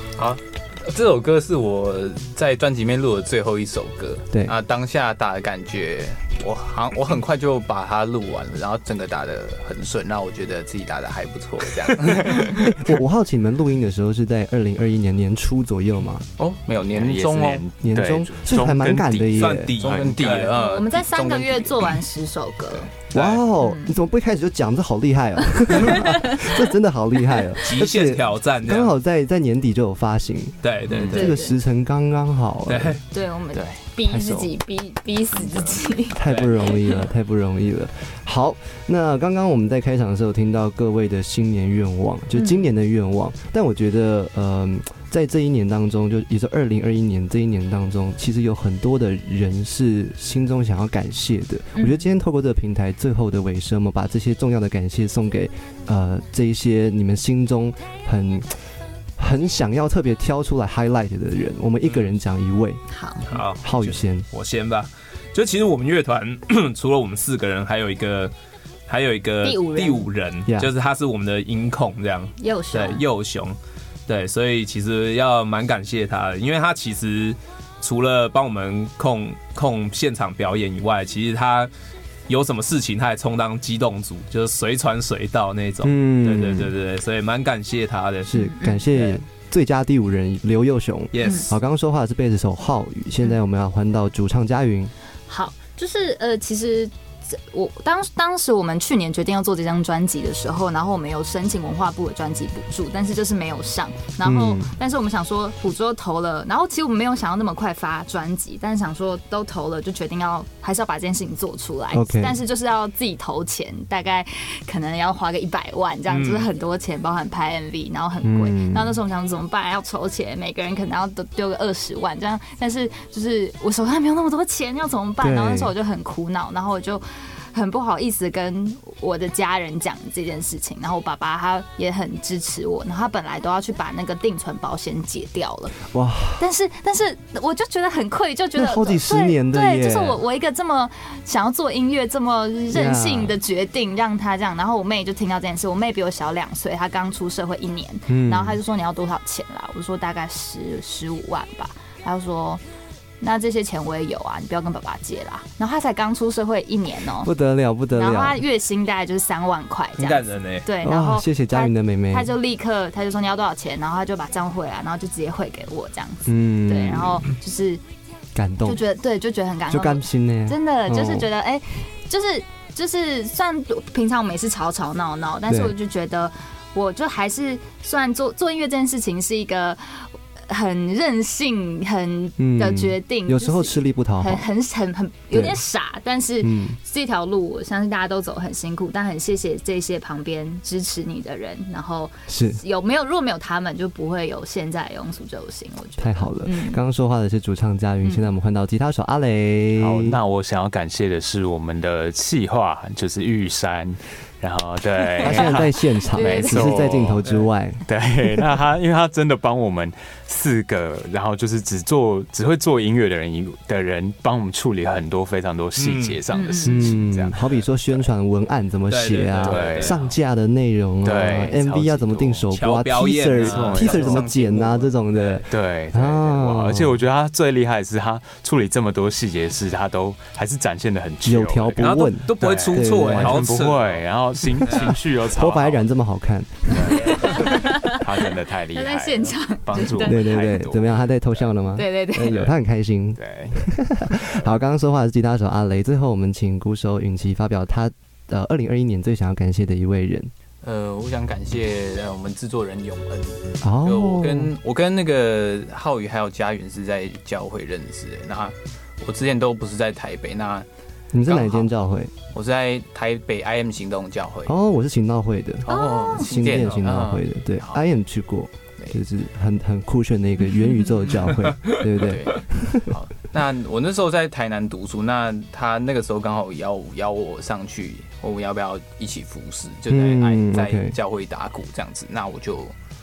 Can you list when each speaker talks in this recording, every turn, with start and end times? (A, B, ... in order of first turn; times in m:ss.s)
0:00.2-0:12.5 A
0:12.6-0:16.2 B
0:16.4-0:17.6 A
0:16.9-0:20.5 C
0:17.8-0:19.7 B
0:19.3-0:20.5 D
0:19.8-0:22.0 A
0:20.5-0:22.9 E
0:23.1-0:33.0 B
0:23.1-0:23.4 D
0:23.6-0:23.9 E
0:25.8-0:26.1 E
0:27.6-0:28.9 D
0:30.6-0:31.3 D
0:31.1-0:31.5 E
0:32.7-0:33.0 D
0:33.1-0:36.2 E
0:34.0-0:34.5 B
0:36.1-0:58.6 B
0:36.3-0:36.5 D
0:42.3-0:42.7 E
0:51.8-0:52.0 E
0:59.2-1:02.8 B
1:02.9-1:03.2 E
1:03.3-1:08.3 D
1:03.3-1:04.2 B
1:08.9-1:13.6 D
1:09.4-1:10.1 E
1:10.5-1:10.7 B
1:12.4-1:13.0 E
1:14.1-1:21.7 D
1:22.3-1:28.4 D
1:25.8-1:26.7 B
1:28.3-1:34.9 B
1:28.4-1:28.8 E
1:28.9-1:29.2 D
1:31.1-1:31.5 D
1:35.3-2:15.8 E
1:44.2-1:44.7 B
1:51.9-1:52.4 B
1:56.1-1:56.4 D
1:58.2-1:59.0 B
2:05.2-2:05.7 B
2:15.8-2:16.4 B
2:16.4-2:32.6 E
2:18.5-2:20.2 B
2:22.7-2:23.3 B
2:28.1-2:28.6 B
2:33.2-2:37.3 E
2:37.2-2:38.4 B
2:37.9-2:47.8 E
2:40.0-2:40.7 D
2:40.8-2:42.3 B
2:46.2-2:47.3 B
2:48.3-2:48.8 B
2:48.6-3:16.8 E
2:49.7-2:51.3 B
2:55.5-2:55.7 B
3:02.4-3:04.5 B
3:05.3-3:05.6 B
3:06.4-3:06.8 B
3:12.3-3:12.6 B
3:16.0-3:20.2 B
3:19.8-3:38.1 C
3:25.2-3:26.9 E
3:25.2-3:27.8 B
3:35.8-3:36.2 D
3:36.3-3:37.0 E
3:36.6-3:47.0 B
3:38.9-3:40.0 D
3:39.4-3:40.1 C
3:41.0-3:42.5 C
3:42.5-3:45.5 D
3:43.4-3:44.3 C
3:44.0-3:44.4 A
3:45.5-3:55.9 C
3:51.2-3:53.5 B
3:51.8-3:54.0 D
3:54.6-3:57.2 B
3:54.6-3:54.9 D
3:56.7-4:01.5 C
3:57.0-3:58.0 E
3:58.7-4:00.3 E
4:00.0-4:10.3 B
4:01.7-4:02.4 E
4:03.2-4:03.7 C
4:10.6-4:20.7 A
4:13.6-4:14.5 B
4:21.1-4:22.1 B
4:21.3-4:21.7 A
4:22.3-4:24.5 A
4:24.4-4:32.9 B
4:25.6-4:27.8 A
4:25.7-4:26.3 E
4:32.0-4:42.7 A
4:39.9-4:41.0 B